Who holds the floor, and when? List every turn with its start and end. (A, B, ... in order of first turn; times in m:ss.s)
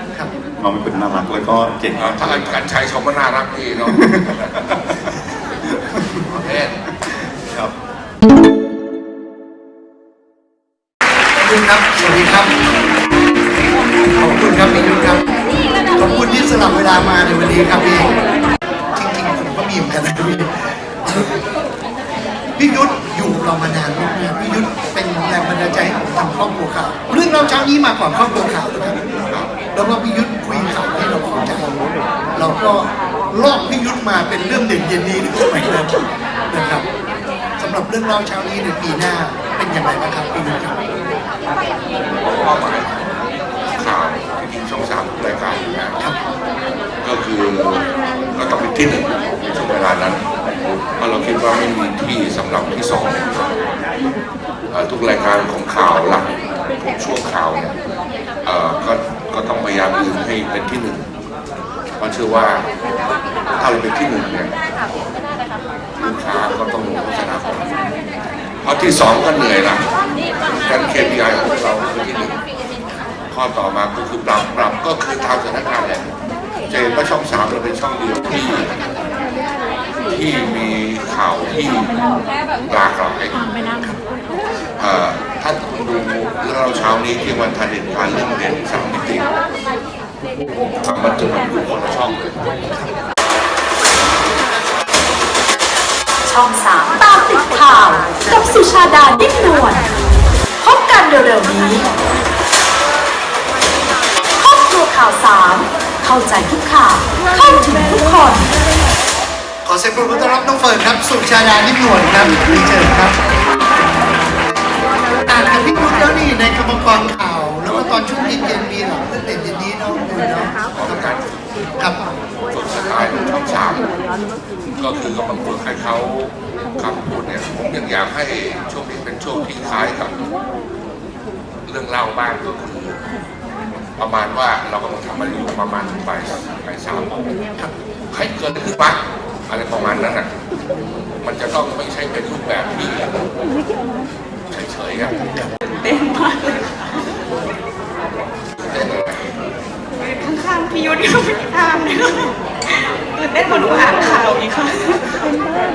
0:00.6-0:02.6 A
0:02.0-0:04.7 B
0:03.8-0:05.2 A
0:05.7-0:06.2 A
0:06.2-0:06.8 B
0:07.0-0:07.7 A
0:11.4-0:12.5 C
0:14.1-0:15.3 C
0:15.9-0:18.2 C
0:18.9-0:20.5 C
0:21.0-0:21.4 C
0:22.6-0:29.1 C
0:29.1-0:29.6 B
0:29.7-0:31.7 C
0:32.3-0:36.9 C
0:37.6-0:40.8 C
0:42.2-0:43.1 B
0:43.8-0:46.0 B
0:47.0-0:50.3 B
0:51.0-0:53.6 B
0:54.7-0:56.3 B
0:56.9-0:57.8 B
0:58.4-1:01.1 B
1:02.0-1:02.7 B
1:03.6-1:04.5 B
1:06.0-1:07.9 B
1:08.6-1:09.8 B
1:10.5-1:12.4 B
1:13.3-1:16.1 B
1:16.7-1:18.7 B
1:20.1-1:22.0 B
1:22.6-1:23.5 B
1:24.8-1:29.3 B
1:30.8-1:32.3 B
1:36.3-1:39.8 D
1:40.6-1:41.8 D
1:44.5-1:48.4 D
1:49.6-1:53.2 C
1:55.3-2:01.1 C
2:00.7-2:01.3 B
2:02.5-2:03.9 B
2:04.8-2:10.2 B
2:11.7-2:13.0 B
2:14.0-2:17.3 B
2:18.1-2:20.3 B
2:21.2-2:23.2 B
2:24.5-2:25.2 B
2:25.7-2:27.2 E
2:28.6-2:29.2 B
2:30.0-2:35.3 E